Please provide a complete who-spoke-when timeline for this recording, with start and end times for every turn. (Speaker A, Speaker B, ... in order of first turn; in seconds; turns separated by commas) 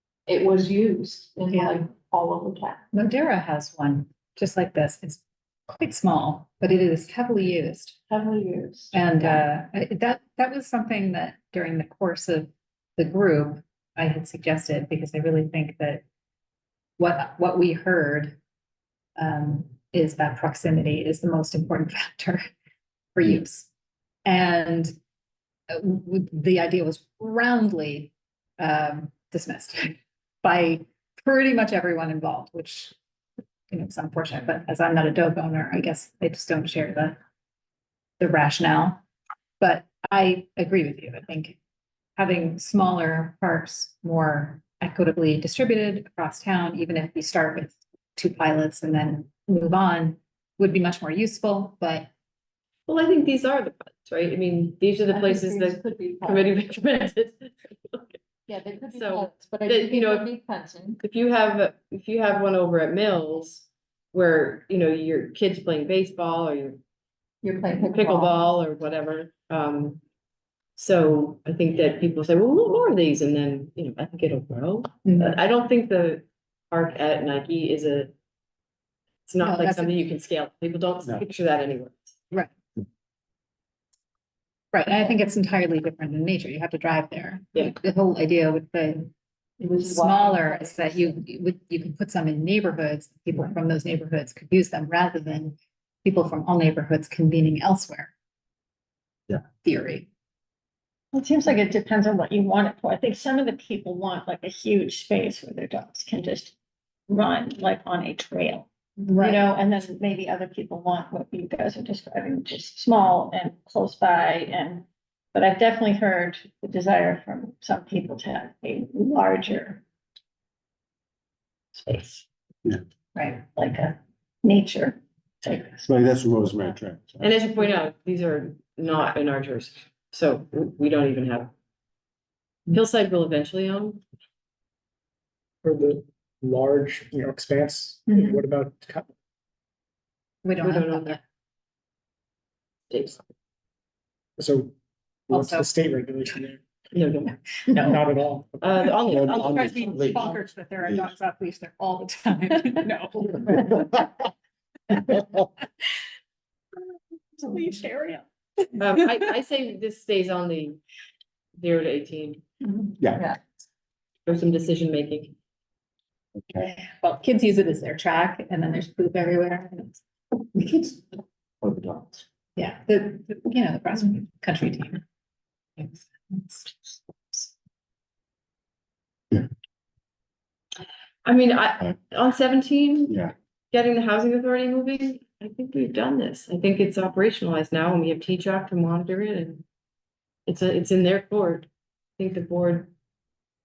Speaker A: 0.3-2.8, Speaker B: 1.5-1.8, Speaker B: 2.9-8.0, Speaker A: 8.1-9.4, Speaker B: 8.9-16.0, Speaker B: 17.0-18.4, Speaker B: 19.2-22.4, Speaker B: 23.1-23.7, Speaker B: 24.2-24.9, Speaker B: 25.7-33.0, Speaker B: 33.7-37.2, Speaker B: 38.2-39.0, Speaker B: 39.6-41.6, Speaker B: 42.2-52.1, Speaker C: 52.9-58.2, Speaker A: 55.1-56.5, Speaker A: 58.5-61.0, Speaker C: 58.9-60.3, Speaker C: 61.0-66.8, Speaker A: 67.4-68.3, Speaker C: 67.8-70.0, Speaker C: 70.8-78.1, Speaker B: 75.0-75.4, Speaker C: 79.3-82.1, Speaker B: 79.4-79.9, Speaker B: 84.7-89.1, Speaker A: 89.6-91.2, Speaker B: 89.8-98.1, Speaker B: 99.5-100.1, Speaker D: 101.1-106.5, Speaker D: 107.1-108.7, Speaker B: 109.0-109.4, Speaker D: 109.2-119.8, Speaker D: 121.7-122.2, Speaker D: 123.4-125.8, Speaker E: 125.8-127.3, Speaker C: 127.2-131.5, Speaker C: 132.7-134.0, Speaker F: 135.6-139.1, Speaker B: 138.1-138.4, Speaker B: 140.4-141.2, Speaker C: 140.6-141.2, Speaker C: 142.9-143.2, Speaker F: 144.4-144.7, Speaker F: 145.3-146.6, Speaker B: 145.3-145.7, Speaker C: 146.9-147.3, Speaker B: 147.7-148.0, Speaker F: 147.8-148.9, Speaker C: 148.6-150.0, Speaker E: 149.0-151.2, Speaker B: 149.4-154.1, Speaker D: 157.4-158.2, Speaker C: 158.8-160.8, Speaker C: 161.6-162.4, Speaker C: 164.2-165.3, Speaker E: 166.4-166.7, Speaker B: 166.6-170.0, Speaker B: 170.6-171.0, Speaker E: 171.6-172.2, Speaker B: 172.6-175.0, Speaker B: 175.8-177.5, Speaker C: 181.2-189.6, Speaker C: 190.5-192.9